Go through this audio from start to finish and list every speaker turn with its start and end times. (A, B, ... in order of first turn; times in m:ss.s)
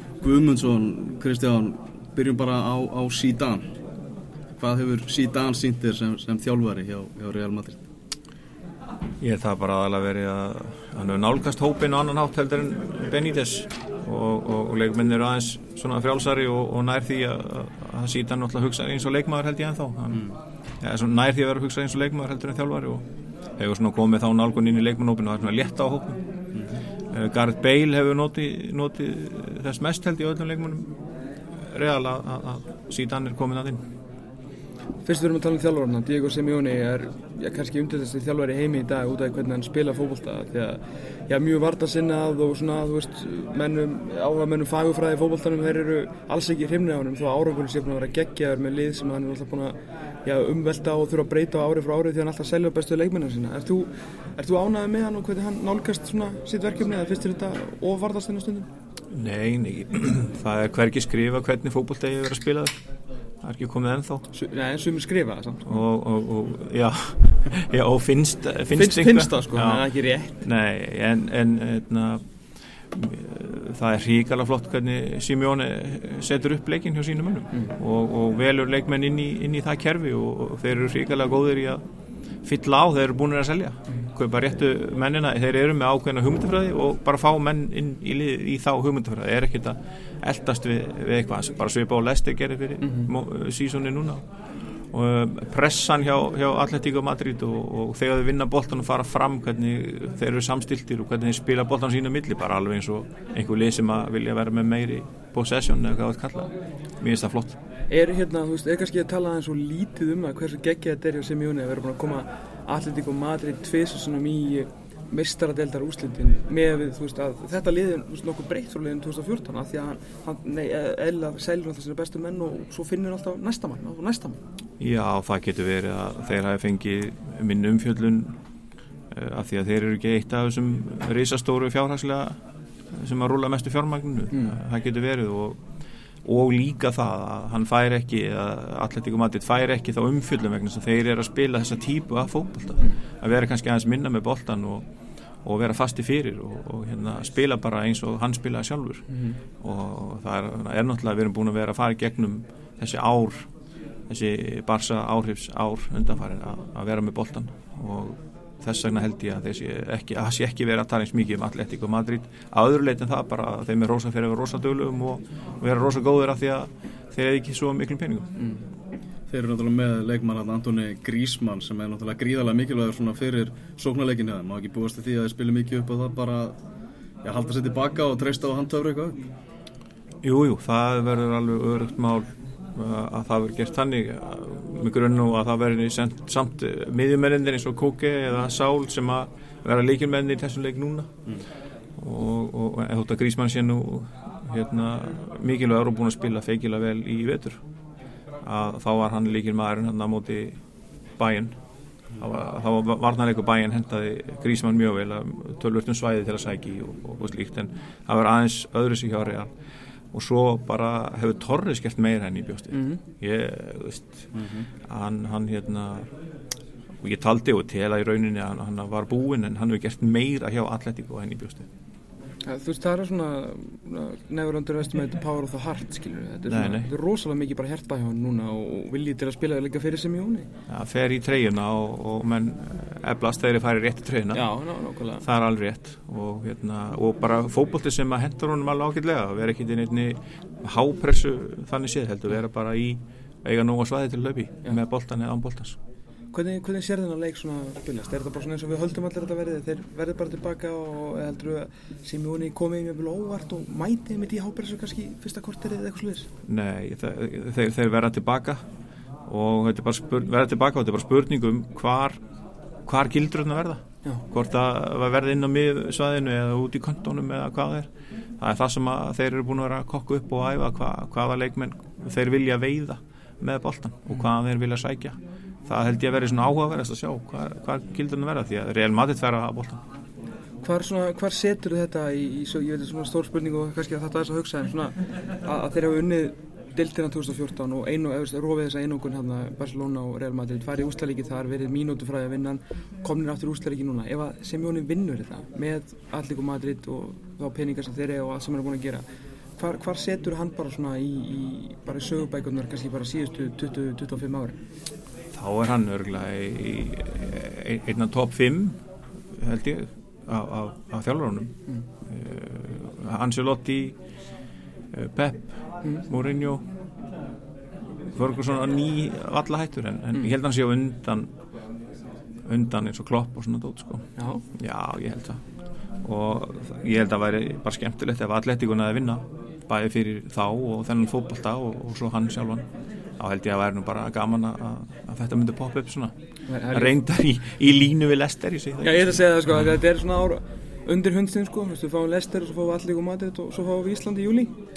0:00.2-0:03.7 A
0:04.6-0:07.8 A
0:09.2-0:20.3 B
0:20.8-0:23.0 B
0:23.6-0:26.2 B
0:27.1-0:30.9 B
0:31.7-0:33.8 B
0:35.0-0:58.7 C
0:59.1-1:02.7 B
1:03.4-1:04.2 B
1:04.3-1:05.8 C
1:05.6-1:09.9 B
1:08.7-1:10.4 C
1:10.4-1:12.2 B
1:12.9-1:21.8 B
1:22.4-1:34.2 B
1:32.8-1:33.1 C
1:34.9-1:47.6 B
1:47.9-2:04.4 C
2:04.8-2:08.3 B
2:09.1-2:12.4 B
2:12.9-2:15.6 B
2:14.3-2:14.6 C
2:16.2-2:24.8 B
2:25.4-2:29.0 B
2:29.1-2:29.4 C
2:29.6-2:33.4 B
2:34.1-2:48.3 B
2:49.3-2:56.6 A
2:57.2-2:59.3 A
3:00.2-3:11.1 B
3:12.0-3:17.6 B
3:18.4-3:20.6 B
3:21.2-3:21.5 B
3:22.2-3:29.5 B
3:30.1-3:34.3 B
3:32.7-3:33.0 C
3:34.3-3:34.7 A
3:34.9-3:36.1 B
3:37.0-3:41.6 B
3:42.4-3:50.5 C
3:46.5-3:46.9 B
3:50.7-3:54.5 B
3:54.3-3:55.2 C
3:55.2-4:05.8 B
4:06.3-4:16.3 C
4:16.5-4:18.6 B
4:19.3-4:22.2 B
4:22.9-4:27.9 B
4:28.4-4:35.1 B
4:35.7-4:39.8 B
4:40.6-4:59.0 C
4:59.6-5:04.6 C
5:05.3-5:08.8 B
5:09.4-5:11.5 B
5:12.0-5:13.9 B
5:14.9-5:16.6 B
5:18.1-5:21.3 B
5:22.5-5:24.0 B
5:24.2-5:24.4 C
5:24.6-5:25.4 B
5:26.0-5:32.6 B
5:33.2-5:36.1 B
5:36.5-5:37.0 C
5:36.7-5:39.1 B
5:38.8-5:44.5 C